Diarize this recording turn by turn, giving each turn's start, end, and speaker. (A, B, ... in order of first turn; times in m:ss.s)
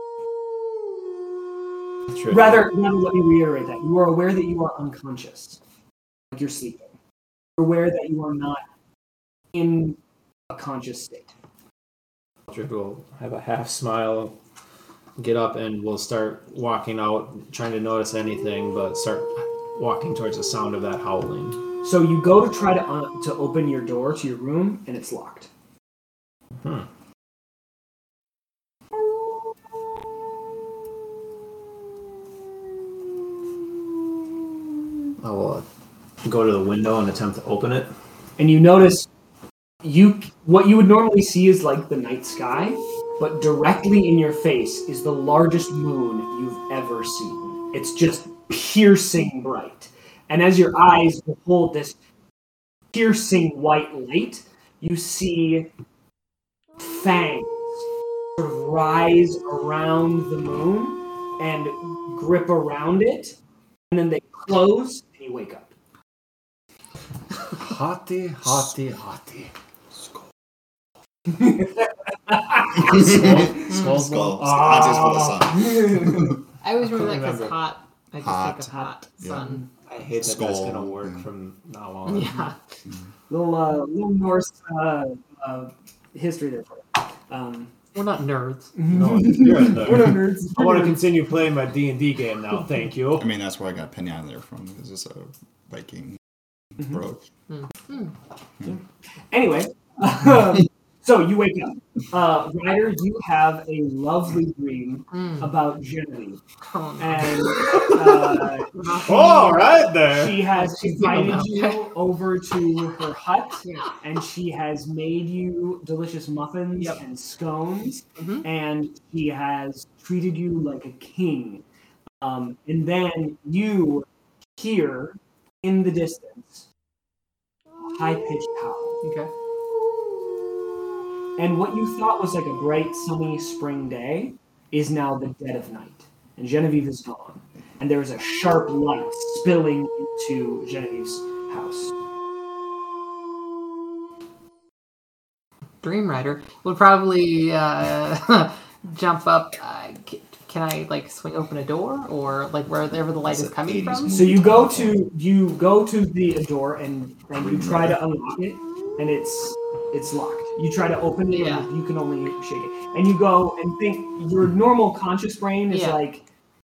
0:02.1-0:02.7 A
0:02.3-0:05.6 B
0:06.3-0:07.0 B
0:07.6-0:08.6 B
0:09.5-0:10.0 B
0:10.5-0:11.3 B
0:12.5-0:14.4 A
0:15.2-0:21.6 A
0:21.8-0:25.5 B
0:26.6-0:26.9 A
0:35.2-0:35.6 A
0:36.2-0:37.9 A
0:38.4-0:39.1 B
0:39.8-0:52.0 B
0:52.9-0:55.7 B
0:56.8-0:57.8 B
0:58.4-1:03.4 B
1:03.9-1:05.7 B
1:07.5-1:09.5 A
1:10.0-1:10.2 C
1:11.3-1:13.8 B
1:12.8-1:14.8 A
1:12.8-1:16.4 C
1:14.4-1:16.4 B
1:16.6-1:19.6 D
1:16.8-1:17.6 A
1:18.2-1:19.6 C
1:19.8-1:22.5 A
1:20.2-1:21.2 C
1:22.1-1:22.6 D
1:23.3-1:27.7 B
1:27.9-1:28.8 D
1:28.7-1:31.0 B
1:28.9-1:33.3 A
1:33.2-1:36.2 C
1:36.8-1:37.2 C
1:37.5-1:38.1 D
1:39.3-1:46.4 B
1:45.1-1:45.4 D
1:46.6-1:48.0 D
1:47.0-1:49.0 B
1:48.7-1:49.8 D
1:49.0-1:50.4 A
1:50.1-2:01.6 B
1:50.6-1:51.8 D
1:53.6-1:53.9 D
1:58.2-1:58.4 D
2:02.2-2:06.7 B
2:07.8-2:09.0 B
2:09.0-2:09.3 D
2:11.4-2:22.0 B
2:25.8-2:34.4 D
2:33.2-2:35.0 C
2:34.1-2:46.2 B
2:37.4-2:38.0 C
2:41.3-2:41.7 D
2:45.7-2:46.0 D